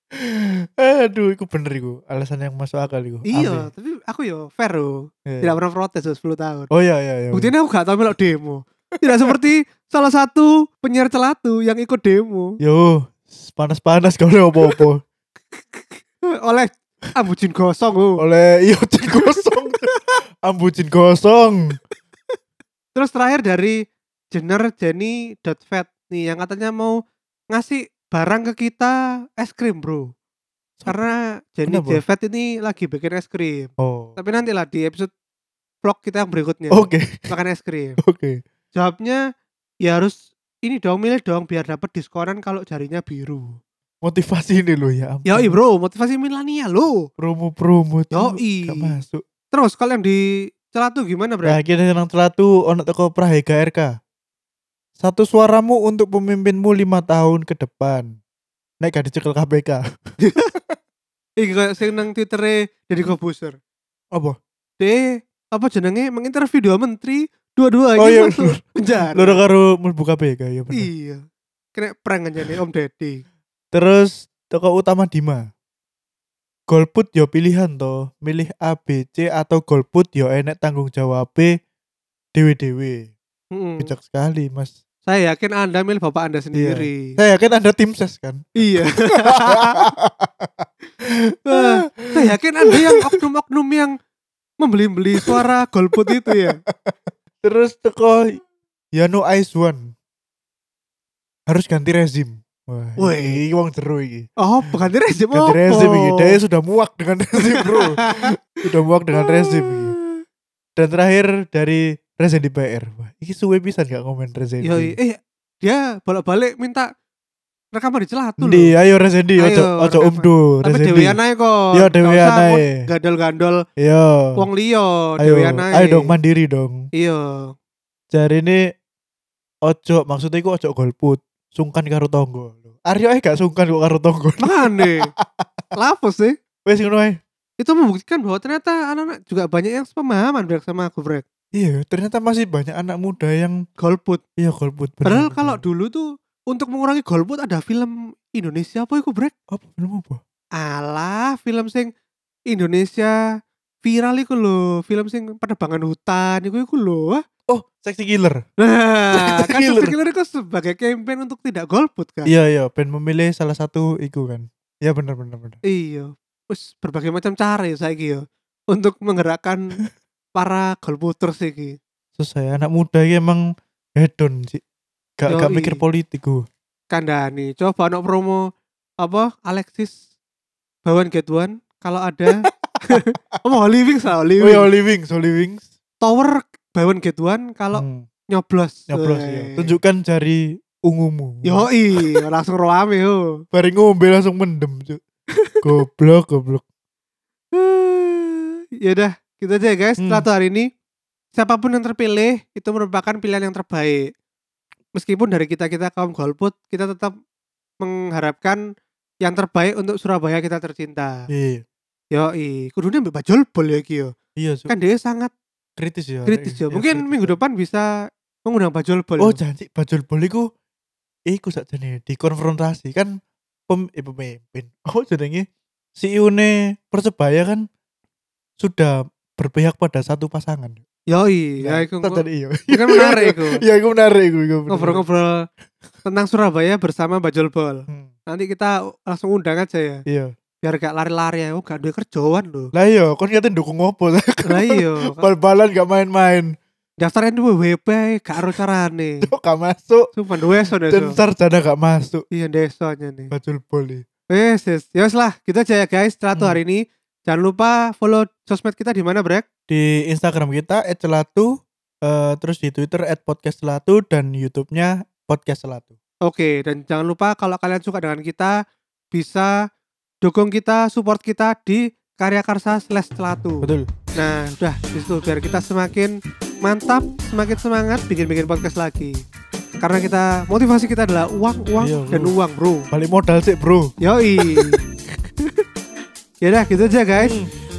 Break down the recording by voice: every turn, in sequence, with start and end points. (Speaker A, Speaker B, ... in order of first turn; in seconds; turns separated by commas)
Speaker A: 0.2-3.7, Speaker B: 3.3-6.7, Speaker A: 5.3-5.6, Speaker A: 6.7-7.5, Speaker B: 7.3-12.5, Speaker A: 12.6-15.0, Speaker B: 15.6-18.2, Speaker A: 18.2-21.8, Speaker B: 19.1-20.2, Speaker B: 22.9-23.8, Speaker B: 24.3-27.0, Speaker B: 27.5-30.1, Speaker A: 30.8-31.1, Speaker B: 30.9-35.1, Speaker A: 31.7-32.0, Speaker A: 33.8-34.2, Speaker B: 35.8-38.0, Speaker A: 36.7-37.3, Speaker A: 38.0-38.4, Speaker B: 38.8-39.2, Speaker B: 39.8-43.6, Speaker A: 44.0-45.6, Speaker B: 45.3-47.1, Speaker A: 47.2-49.2, Speaker B: 48.1-49.0, Speaker B: 49.5-51.6, Speaker A: 51.5-53.9, Speaker A: 55.0-58.1, Speaker A: 58.8-59.8, Speaker B: 60.2-60.5, Speaker B: 61.4-63.6, Speaker B: 64.8-69.4, Speaker A: 68.0-70.9, Speaker B: 70.8-71.2, Speaker B: 71.8-73.2, Speaker A: 73.7-75.5, Speaker A: 76.7-81.5, Speaker A: 82.3-83.1, Speaker B: 83.5-83.9, Speaker A: 83.8-84.8, Speaker B: 85.1-87.2, Speaker A: 86.5-88.5, Speaker B: 88.6-89.9, Speaker A: 89.1-93.2, Speaker B: 91.5-94.0, Speaker B: 94.6-96.6, Speaker A: 96.0-98.4, Speaker A: 99.0-99.9, Speaker A: 101.5-104.3, Speaker B: 103.0-103.4, Speaker B: 104.4-106.4, Speaker A: 105.3-110.0, Speaker B: 107.4-108.3, Speaker B: 109.1-110.2, Speaker A: 110.8-115.0, Speaker B: 114.6-116.9, Speaker B: 117.7-118.7, Speaker A: 118.4-121.2, Speaker B: 119.4-123.6, Speaker A: 121.7-122.8, Speaker A: 123.8-124.5, Speaker B: 124.4-126.1, Speaker A: 125.2-126.9, Speaker B: 127.0-127.5, Speaker A: 128.1-128.7, Speaker A: 129.7-135.5, Speaker B: 134.4-135.1, Speaker B: 135.8-136.4, Speaker A: 136.7-137.2, Speaker B: 137.6-141.2, Speaker A: 141.5-143.6, Speaker B: 143.8-144.2, Speaker A: 144.4-145.6, Speaker B: 145.1-149.3, Speaker A: 149.5-150.2, Speaker B: 150.6-151.9, Speaker B: 152.5-153.2, Speaker B: 153.8-157.2, Speaker A: 157.5-158.4, Speaker B: 158.6-162.3, Speaker A: 159.1-159.9, Speaker A: 162.3-165.6, Speaker B: 165.7-169.8, Speaker B: 170.4-171.8, Speaker A: 172.2-173.4, Speaker A: 174.0-174.6, Speaker A: 175.2-176.4, Speaker B: 175.3-175.8, Speaker B: 176.9-178.4, Speaker B: 179.0-180.0, Speaker B: 180.8-184.7, Speaker A: 182.3-183.2, Speaker A: 184.4-185.7, Speaker B: 186.0-189.7, Speaker A: 187.7-188.1, Speaker A: 188.9-192.2, Speaker B: 191.4-193.2, Speaker A: 193.5-195.0, Speaker A: 195.6-196.6, Speaker B: 197.5-200.7, Speaker A: 200.0-200.3, Speaker B: 201.3-204.1, Speaker B: 205.0-207.1, Speaker B: 207.8-208.6, Speaker B: 209.2-211.3, Speaker A: 211.3-211.6, Speaker B: 212.1-214.1, Speaker A: 214.4-214.7, Speaker B: 214.7-215.3, Speaker A: 215.8-217.4, Speaker B: 216.3-217.9, Speaker B: 218.5-219.4, Speaker A: 219.2-220.5, Speaker A: 221.3-223.1, Speaker A: 223.7-225.4, Speaker A: 226.0-227.7, Speaker A: 228.6-230.8, Speaker B: 231.1-233.6, Speaker A: 231.6-235.0, Speaker B: 234.7-235.5, Speaker B: 236.1-240.0, Speaker A: 240.1-240.3, Speaker B: 240.6-242.7, Speaker A: 242.8-246.6, Speaker B: 244.5-245.3, Speaker B: 247.0-249.3, Speaker A: 249.2-250.1, Speaker B: 250.2-251.2, Speaker A: 250.9-252.2, Speaker B: 252.3-253.3, Speaker A: 253.3-254.0, Speaker B: 254.3-259.4, Speaker A: 259.7-261.5, Speaker A: 262.0-266.0, Speaker B: 266.2-268.6, Speaker B: 269.1-269.5, Speaker B: 270.2-279.2, Speaker A: 273.6-273.9, Speaker B: 279.8-282.9, Speaker A: 281.8-282.4, Speaker A: 282.9-284.8, Speaker B: 284.0-284.8, Speaker B: 286.4-287.4, Speaker A: 287.2-287.5